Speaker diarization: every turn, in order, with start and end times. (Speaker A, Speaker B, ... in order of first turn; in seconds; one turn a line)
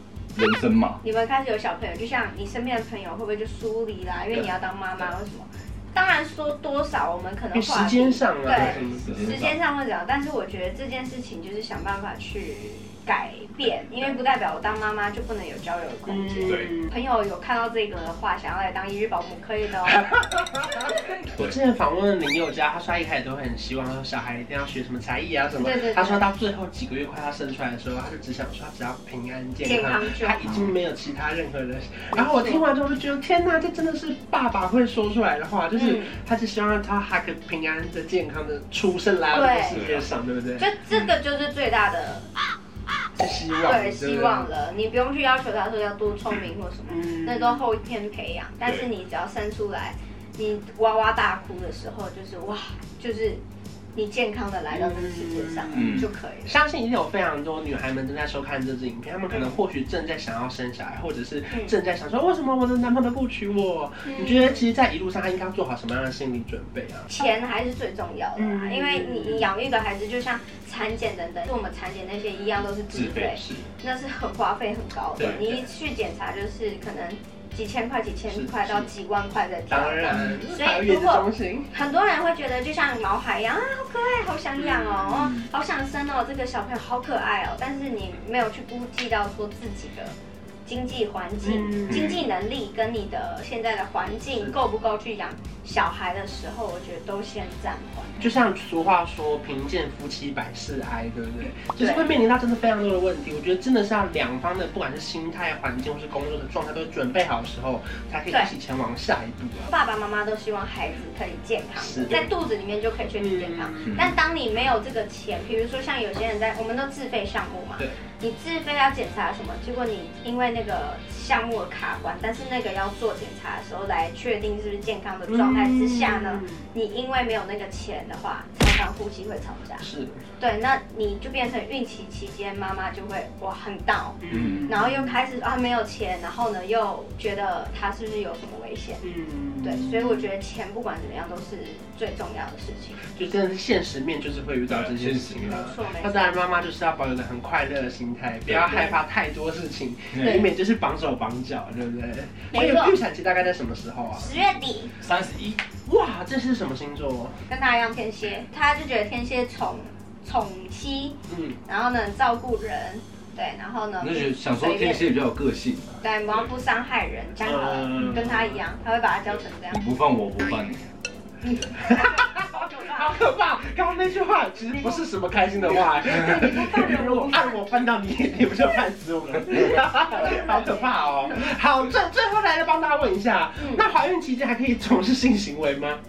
Speaker A: 0.3-1.0
Speaker B: 1.0-20.1
Speaker C: 7.5-9.4
Speaker A: 8.5-9.6
Speaker C: 16.1-16.9
Speaker A: 16.5-16.7
Speaker C: 19.9-40.7
Speaker B: 20.7-21.1
Speaker A: 21.1-21.6
Speaker B: 25.6-26.3
Speaker B: 29.6-30.7
Speaker B: 32.1-32.6
Speaker B: 35.7-36.1
Speaker B: 39.3-39.8
Speaker A: 39.7-40.1
Speaker B: 40.6-42.3
Speaker C: 43.2-44.5
Speaker B: 43.6-53.4
Speaker C: 46.9-47.6
Speaker B: 54.0-56.5
Speaker C: 54.7-67.1
Speaker A: 55.7-56.1
Speaker B: 64.0-64.6
Speaker B: 67.1-98.2
Speaker C: 68.4-69.5
Speaker A: 72.9-73.7
Speaker C: 75.2-75.6
Speaker A: 75.2-75.4
Speaker C: 78.3-78.9
Speaker C: 79.7-81.7
Speaker C: 84.6-85.5
Speaker C: 91.4-92.2
Speaker A: 91.9-92.2
Speaker C: 98.2-109.7
Speaker B: 101.8-102.1
Speaker B: 109.7-129.9
Speaker C: 111.8-112.3
Speaker C: 113.2-114.0
Speaker A: 113.9-114.2
Speaker C: 125.3-126.7
Speaker C: 129.8-130.2
Speaker B: 130.4-139.0
Speaker C: 134.2-135.2
Speaker A: 134.3-134.7
Speaker C: 139.0-140.3
Speaker B: 139.6-143.0
Speaker C: 143.1-154.4
Speaker A: 144.7-145.5
Speaker B: 145.4-146.4
Speaker B: 148.6-149.0
Speaker A: 150.1-150.5
Speaker B: 152.5-152.9
Speaker B: 154.2-155.0
Speaker A: 155.0-155.7
Speaker C: 155.8-157.4
Speaker B: 157.5-165.1
Speaker C: 161.3-161.6
Speaker A: 164.0-166.5
Speaker B: 166.0-169.8
Speaker C: 167.4-168.6
Speaker A: 168.0-168.2
Speaker A: 169.7-170.9
Speaker B: 171.4-173.2
Speaker C: 171.7-186.0
Speaker B: 174.7-175.1
Speaker B: 176.0-177.6
Speaker A: 176.0-176.4
Speaker B: 179.5-181.4
Speaker B: 183.6-183.8